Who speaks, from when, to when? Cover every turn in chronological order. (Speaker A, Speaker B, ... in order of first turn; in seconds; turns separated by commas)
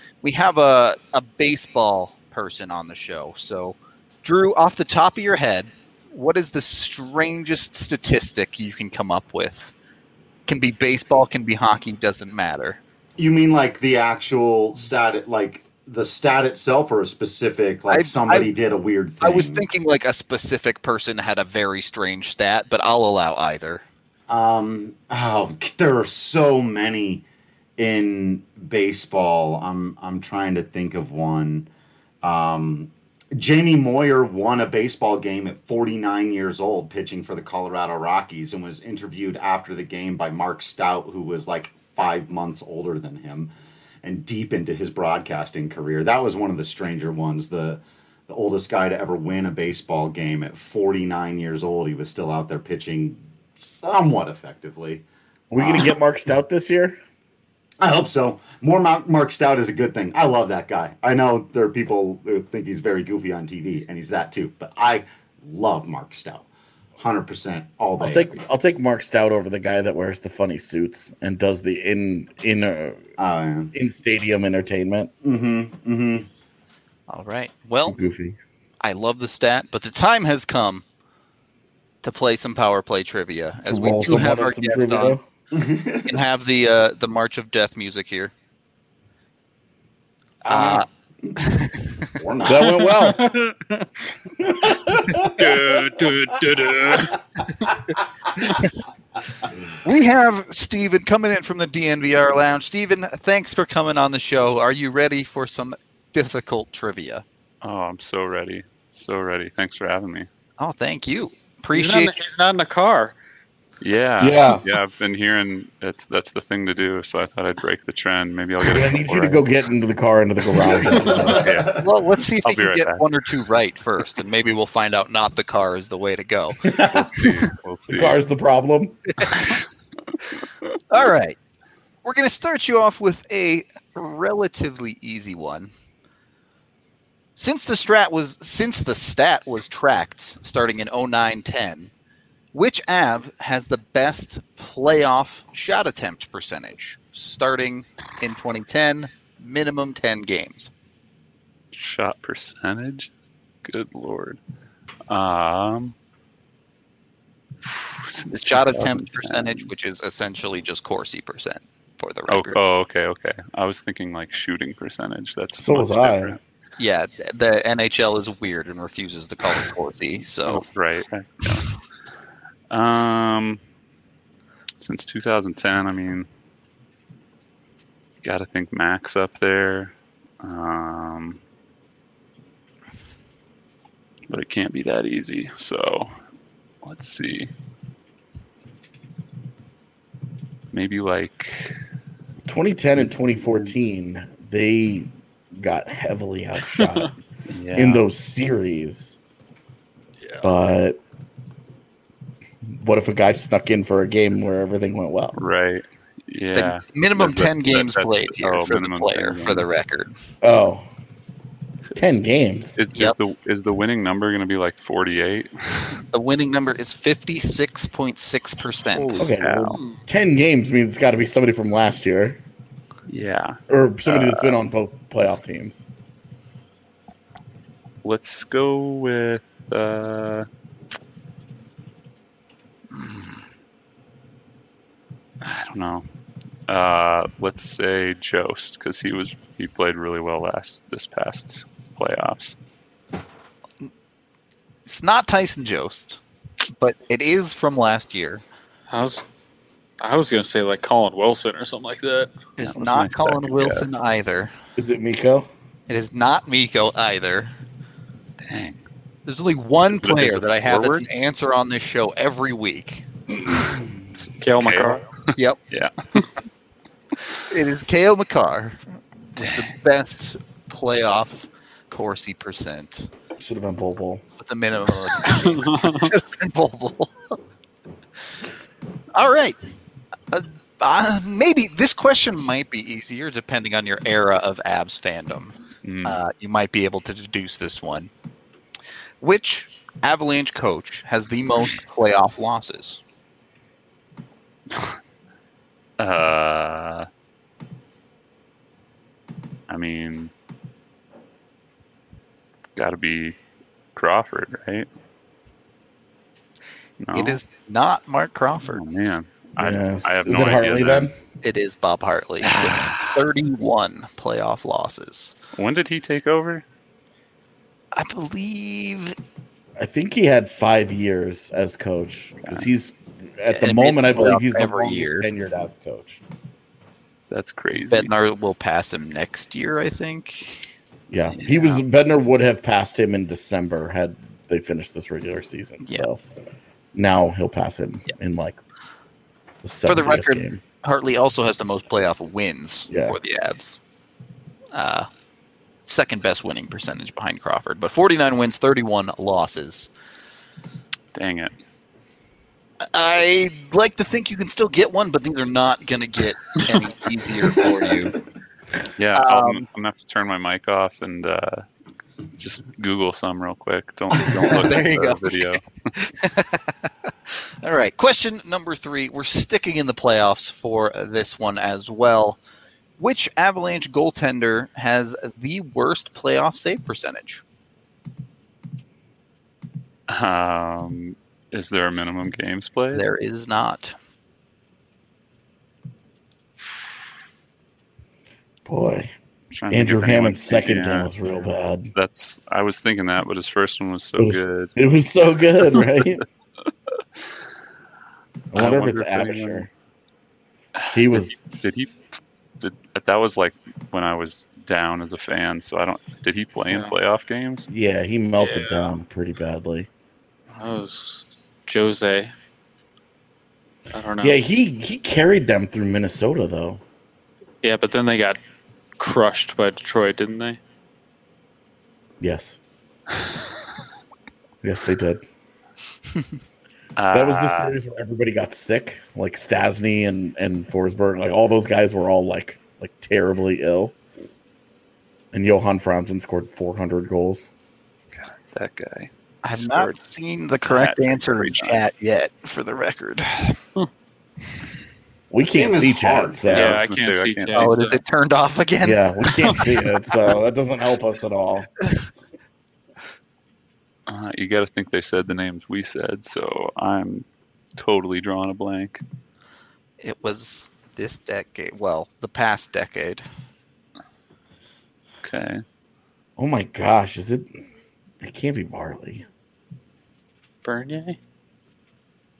Speaker A: 0.2-9.7, Speaker A: 10.5-12.8, Speaker B: 13.2-19.6, Speaker A: 17.9-18.5, Speaker A: 19.2-23.8, Speaker B: 24.3-27.2, Speaker B: 27.8-31.7, Speaker B: 32.2-43.5, Speaker B: 44.0-55.0, Speaker C: 55.5-57.0, Speaker B: 55.5-55.9, Speaker B: 57.8-66.5, Speaker B: 67.0-68.4, Speaker C: 68.0-73.0, Speaker B: 73.2-73.7, Speaker C: 73.7-75.1, Speaker B: 75.2-76.3, Speaker A: 77.1-78.0, Speaker C: 77.8-78.4, Speaker A: 78.8-80.8, Speaker A: 82.0-85.2, Speaker C: 83.7-85.2, Speaker B: 85.5-86.2, Speaker A: 86.0-88.3, Speaker A: 90.5-90.8, Speaker C: 90.5-90.8, Speaker B: 90.5-91.3, Speaker A: 91.4-92.1, Speaker B: 92.1-92.8, Speaker C: 92.4-93.3, Speaker D: 92.6-93.9, Speaker C: 94.4-95.8, Speaker D: 95.2-97.7, Speaker A: 99.8-107.2, Speaker E: 107.6-110.3, Speaker A: 110.6-112.2, Speaker D: 111.7-113.1, Speaker E: 113.8-119.5, Speaker C: 114.2-114.7, Speaker C: 118.6-121.5, Speaker B: 120.5-121.9, Speaker E: 121.2-121.8, Speaker A: 121.7-127.3, Speaker E: 122.4-123.0, Speaker C: 126.6-127.1, Speaker E: 126.9-128.2, Speaker C: 127.9-129.0, Speaker A: 129.2-129.5, Speaker A: 130.9-131.4, Speaker A: 132.0-135.7, Speaker A: 137.3-141.9, Speaker A: 142.5-150.7, Speaker E: 151.7-153.1, Speaker E: 153.6-154.4, Speaker E: 155.1-155.9, Speaker E: 157.7-159.7, Speaker A: 158.3-162.6, Speaker E: 162.3-166.4, Speaker C: 165.6-166.4, Speaker A: 166.8-170.7, Speaker E: 170.5-171.7, Speaker E: 172.7-173.6, Speaker E: 174.8-176.3, Speaker E: 178.2-181.4, Speaker E: 184.3-186.1, Speaker E: 186.8-187.5, Speaker E: 190.7-191.7, Speaker C: 192.4-197.1, Speaker E: 197.5-198.0, Speaker C: 197.7-199.2, Speaker C: 200.4-201.0, Speaker C: 202.7-205.3, Speaker E: 205.3-209.7, Speaker A: 206.5-210.1, Speaker C: 210.4-210.9, Speaker C: 211.9-212.8, Speaker E: 212.8-216.0, Speaker A: 216.1-219.3, Speaker E: 218.9-219.8, Speaker C: 219.2-222.4, Speaker E: 223.1-224.6, Speaker C: 223.7-225.8, Speaker E: 228.0-230.5, Speaker E: 232.9-233.4, Speaker E: 235.4-236.0, Speaker E: 236.7-242.6, Speaker A: 244.8-246.2, Speaker A: 246.8-248.4, Speaker D: 248.9-249.2, Speaker D: 250.0-252.3, Speaker A: 252.6-254.5, Speaker E: 252.6-253.9, Speaker C: 254.8-255.5, Speaker A: 255.9-257.5, Speaker E: 258.5-258.8, Speaker A: 259.2-263.0, Speaker E: 259.9-261.1, Speaker E: 263.5-263.8, Speaker D: 264.4-265.0, Speaker E: 264.5-265.9, Speaker A: 267.5-268.8, Speaker A: 269.4-273.1, Speaker E: 269.4-269.7, Speaker C: 273.4-274.2, Speaker A: 274.4-277.4, Speaker A: 279.1-279.6, Speaker A: 280.3-288.1, Speaker E: 285.8-286.2, Speaker A: 289.2-293.0, Speaker E: 296.0-297.1, Speaker E: 299.7-300.3, Speaker E: 302.8-303.4, Speaker E: 303.9-304.9, Speaker E: 307.0-307.4, Speaker A: 307.1-308.8, Speaker E: 308.6-311.1, Speaker C: 309.6-311.1, Speaker A: 311.4-315.3, Speaker E: 312.4-313.2, Speaker E: 315.6-316.6, Speaker A: 317.9-319.1, Speaker C: 319.8-326.2, Speaker E: 322.4-322.7, Speaker A: 323.5-325.3, Speaker E: 327.3-328.1, Speaker A: 327.9-330.6, Speaker C: 331.1-336.2, Speaker E: 331.3-331.8, Speaker C: 336.9-338.6, Speaker C: 339.6-340.6, Speaker A: 339.9-343.8, Speaker C: 342.9-343.2, Speaker A: 344.7-345.1, Speaker A: 345.8-349.9, Speaker E: 351.1-351.5, Speaker A: 352.9-358.2, Speaker B: 357.4-357.8, Speaker E: 359.0-361.6, Speaker A: 359.1-359.6, Speaker E: 362.4-365.6, Speaker A: 364.2-366.9, Speaker A: 367.6-372.4, Speaker A: 373.0-377.4, Speaker E: 380.1-383.0, Speaker A: 382.9-383.9, Speaker C: 388.6-389.1, Speaker E: 389.5-391.1, Speaker C: 389.7-391.9, Speaker E: 391.9-394.7, Speaker C: 394.2-396.2, Speaker E: 395.8-396.2, Speaker C: 398.5-399.7, Speaker E: 398.5-399.7, Speaker E: 400.8-401.9, Speaker C: 400.9-401.4, Speaker E: 402.6-407.6, Speaker D: 406.7-406.9, Speaker C: 407.7-409.9, Speaker D: 408.4-408.9, Speaker D: 410.5-412.3, Speaker D: 413.9-414.4, Speaker C: 414.2-416.8, Speaker D: 417.6-418.4, Speaker D: 419.0-420.6, Speaker C: 422.2-422.6, Speaker C: 424.6-425.2, Speaker E: 427.0-427.8, Speaker C: 427.1-433.9, Speaker C: 435.3-437.5, Speaker E: 438.1-440.0, Speaker A: 439.4-443.6, Speaker E: 440.6-441.8, Speaker C: 445.3-446.8, Speaker B: 445.4-446.5, Speaker D: 446.5-448.0, Speaker E: 446.5-447.8, Speaker A: 447.5-449.0, Speaker C: 448.8-451.7, Speaker E: 454.1-459.0, Speaker A: 460.0-463.2, Speaker E: 465.2-465.6, Speaker C: 466.4-467.5, Speaker C: 468.2-469.2, Speaker D: 470.6-471.2